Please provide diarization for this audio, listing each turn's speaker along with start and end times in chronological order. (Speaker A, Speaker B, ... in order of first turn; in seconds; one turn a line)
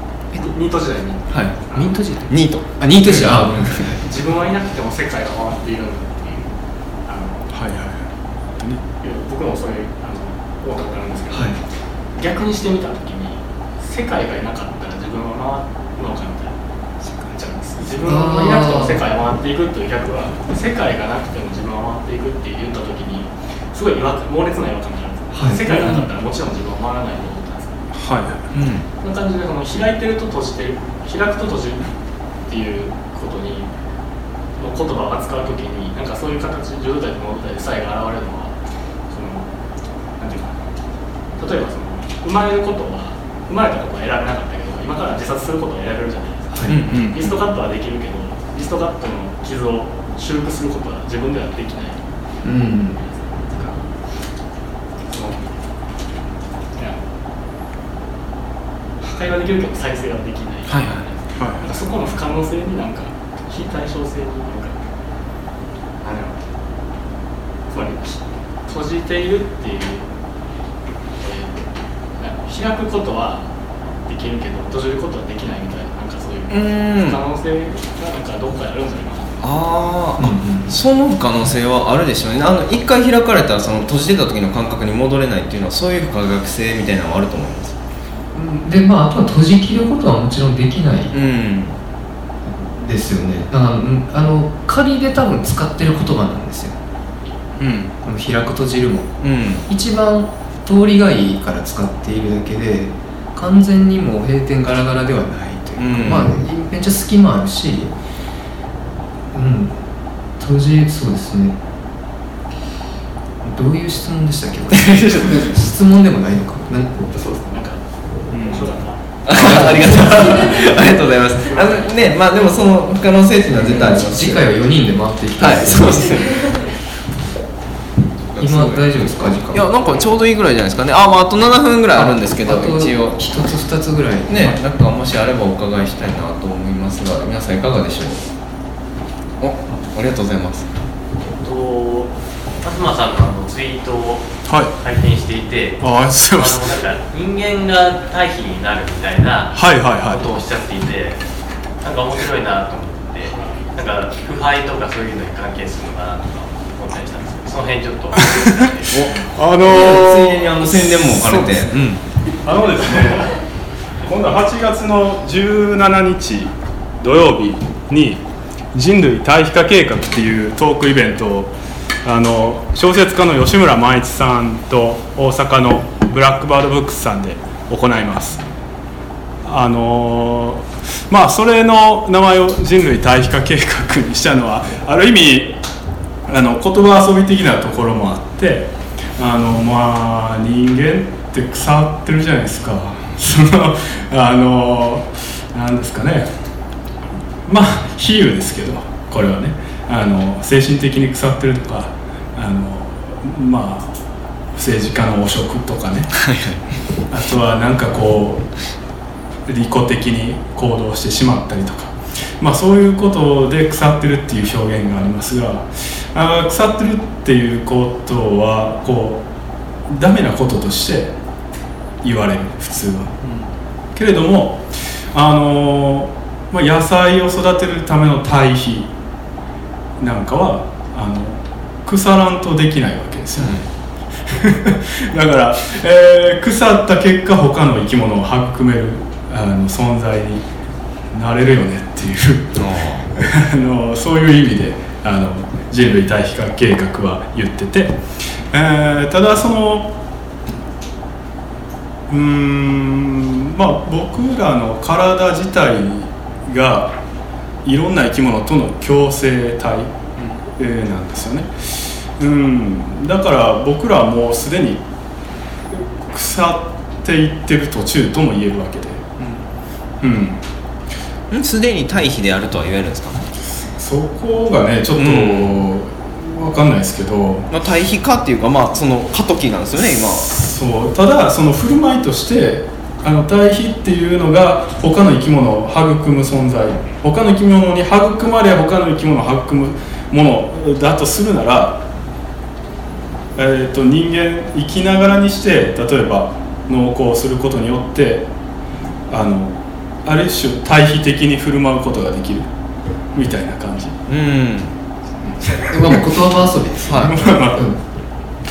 Speaker A: 0.3-2.0
Speaker B: 1.3-1.6
Speaker C: 1.8-4.0
Speaker B: 2.3-2.7
Speaker D: 3.1-3.5
Speaker A: 4.0-6.5
Speaker A: 7.0-7.5
Speaker D: 7.5-8.1
Speaker A: 9.0-11.6
Speaker C: 11.3-11.6
Speaker A: 12.1-27.8
Speaker C: 18.0-19.1
Speaker C: 25.3-26.0
Speaker D: 27.9-28.4
Speaker B: 28.5-28.8
Speaker A: 29.0-31.9
Speaker A: 32.5-33.7
Speaker A: 34.5-38.5
Speaker A: 39.1-39.5
Speaker A: 40.2-40.6
Speaker A: 41.4-52.0
Speaker C: 46.5-46.8
Speaker B: 46.7-47.1
Speaker D: 46.9-47.3
Speaker C: 52.4-53.0
Speaker A: 53.0-53.9
Speaker A: 55.1-55.5
Speaker A: 59.0-64.8
Speaker B: 60.7-61.1
Speaker D: 61.4-61.7
Speaker A: 66.0-66.4
Speaker A: 67.7-70.0
Speaker A: 71.2-71.6
Speaker A: 72.2-73.5
Speaker A: 74.1-79.4
Speaker B: 76.5-77.2
Speaker B: 79.4-87.8
Speaker C: 80.2-80.7
Speaker C: 88.3-91.1
Speaker B: 91.1-91.8
Speaker C: 92.4-96.8
Speaker D: 97.6-97.9
Speaker C: 98.0-99.1
Speaker B: 99.2-99.6
Speaker C: 99.7-107.9
Speaker B: 105.8-106.3
Speaker C: 109.3-109.8
Speaker C: 110.4-111.6
Speaker C: 113.4-117.0
Speaker B: 114.7-115.5
Speaker A: 117.1-121.9
Speaker D: 118.3-118.7
Speaker B: 119.2-124.5
Speaker C: 119.3-120.4
Speaker C: 123.5-126.5
Speaker B: 125.4-126.7
Speaker B: 128.3-133.2
Speaker C: 128.4-129.7
Speaker C: 131.9-134.6
Speaker B: 134.3-138.2
Speaker B: 139.4-140.7
Speaker E: 141.4-142.1
Speaker A: 141.4-141.9
Speaker E: 142.6-151.2
Speaker D: 144.5-144.7
Speaker D: 145.8-146.7
Speaker D: 149.5-150.3
Speaker E: 151.8-159.1
Speaker A: 153.3-153.7
Speaker D: 158.3-163.4
Speaker B: 159.6-162.0
Speaker D: 164.0-171.5
Speaker D: 172.0-178.4
Speaker D: 179.4-185.6
Speaker D: 186.3-196.3
Speaker D: 197.5-203.9
Speaker D: 204.6-206.3
Speaker B: 206.2-206.6
Speaker D: 207.1-208.5
Speaker D: 209.4-219.2
Speaker D: 219.9-221.1
Speaker D: 222.0-223.1
Speaker D: 223.9-228.9
Speaker D: 230.0-233.6
Speaker B: 233.3-233.7
Speaker D: 234.3-240.4
Speaker D: 241.1-242.6
Speaker B: 242.6-243.1
Speaker D: 243.2-249.9
Speaker D: 252.1-256.9
Speaker D: 257.6-264.8
Speaker D: 265.7-269.1
Speaker D: 270.0-270.4
Speaker B: 271.3-273.2
Speaker D: 273.8-277.5
Speaker B: 274.9-275.6
Speaker B: 277.5-280.3
Speaker D: 280.1-291.8
Speaker D: 293.4-298.3
Speaker D: 299.1-302.5
Speaker D: 303.1-304.0
Speaker B: 304.1-304.7
Speaker C: 305.5-307.8
Speaker B: 306.9-307.1
Speaker D: 306.9-307.7